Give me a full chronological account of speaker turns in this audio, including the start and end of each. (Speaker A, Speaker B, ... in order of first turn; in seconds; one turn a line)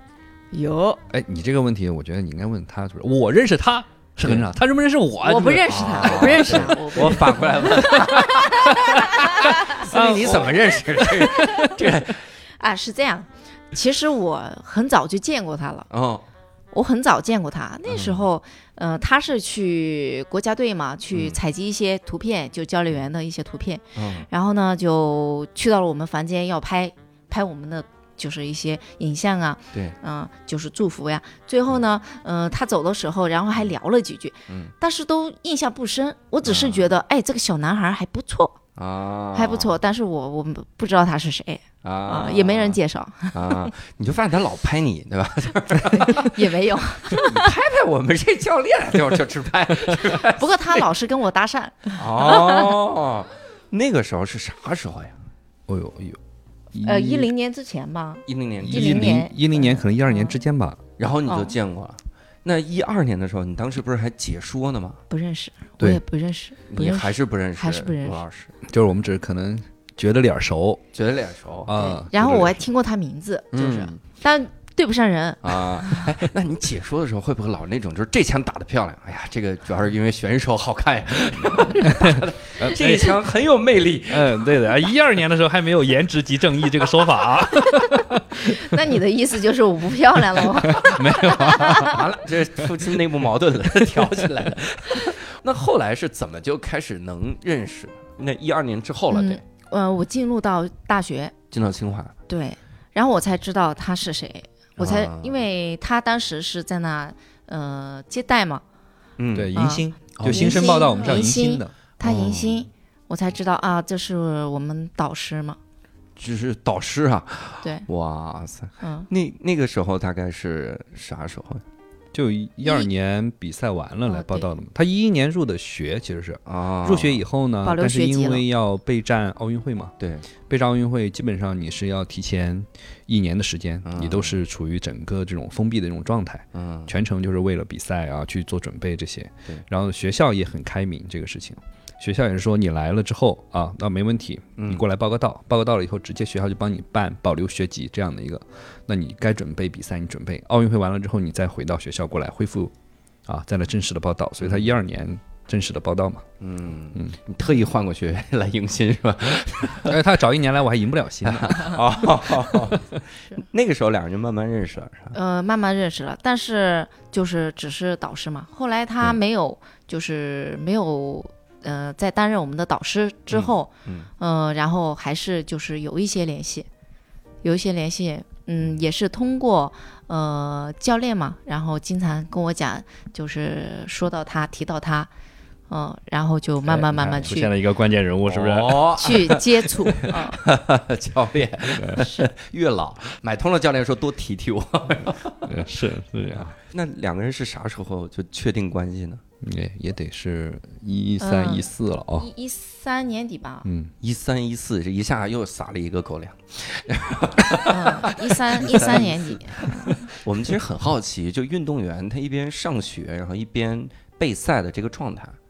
Speaker A: 0.5-1.0
Speaker B: 1.1-11.8
Speaker A: 5.2-10.1
Speaker C: 5.7-12.2
Speaker A: 12.6-15.9
Speaker C: 15.9-16.2
Speaker A: 16.7-38.6
Speaker C: 17.9-18.2
Speaker C: 21.1-21.4
Speaker C: 24.0-24.3
Speaker C: 36.4-36.9
Speaker C: 38.8-39.8
Speaker A: 39.3-43.7
Speaker C: 41.8-42.8
Speaker C: 43.3-46.5
Speaker A: 45.9-47.5
Speaker C: 47.1-50.9
Speaker A: 50.2-52.7
Speaker C: 52.0-55.2
Speaker B: 55.7-56.2
Speaker B: 56.7-57.3
Speaker A: 56.8-60.4
Speaker C: 58.3-59.2
Speaker B: 58.6-60.8
Speaker C: 61.0-65.0
Speaker A: 61.3-61.5
Speaker A: 65.1-68.2
Speaker C: 66.7-68.5
Speaker B: 68.7-70.8
Speaker C: 70.9-71.8
Speaker B: 71.7-72.6
Speaker A: 71.7-76.0
Speaker C: 73.5-74.0
Speaker C: 75.4-84.4
Speaker B: 81.3-83.2
Speaker B: 84.1-88.8
Speaker A: 88.4-92.0
Speaker B: 90.6-92.0
Speaker C: 90.8-91.1
Speaker C: 91.7-99.4
Speaker A: 99.1-101.3
Speaker C: 101.5-102.1
Speaker A: 102.3-108.6
Speaker C: 104.8-105.4
Speaker C: 109.2-109.6
Speaker B: 109.3-111.7
Speaker A: 109.5-115.6
Speaker C: 110.1-111.0
Speaker C: 112.0-112.6
Speaker C: 116.2-121.6
Speaker A: 118.8-119.1
Speaker B: 122.1-129.9
Speaker A: 124.1-124.5
Speaker C: 126.5-127.2
Speaker A: 127.6-128.4
Speaker C: 130.0-130.3
Speaker B: 130.5-152.7
Speaker C: 133.8-134.4
Speaker C: 136.5-136.9
Speaker C: 144.6-144.8
Speaker B: 153.3-156.2
Speaker C: 154.4-154.7
Speaker C: 156.4-160.0
Speaker B: 159.9-161.8
Speaker C: 161.2-165.2
Speaker B: 162.5-163.0
Speaker A: 165.1-176.7
Speaker C: 173.3-174.1
Speaker A: 177.4-185.1
Speaker A: 185.7-187.5
Speaker B: 186.7-188.9
Speaker C: 187.0-187.3
Speaker C: 188.3-195.5
Speaker A: 189.0-190.4
Speaker B: 191.8-192.0
Speaker A: 192.0-192.3
Speaker B: 195.5-196.5
Speaker C: 196.3-199.2
Speaker B: 199.4-202.3
Speaker A: 201.2-203.7
Speaker B: 203.7-203.9
Speaker C: 204.0-215.4
Speaker A: 207.7-210.0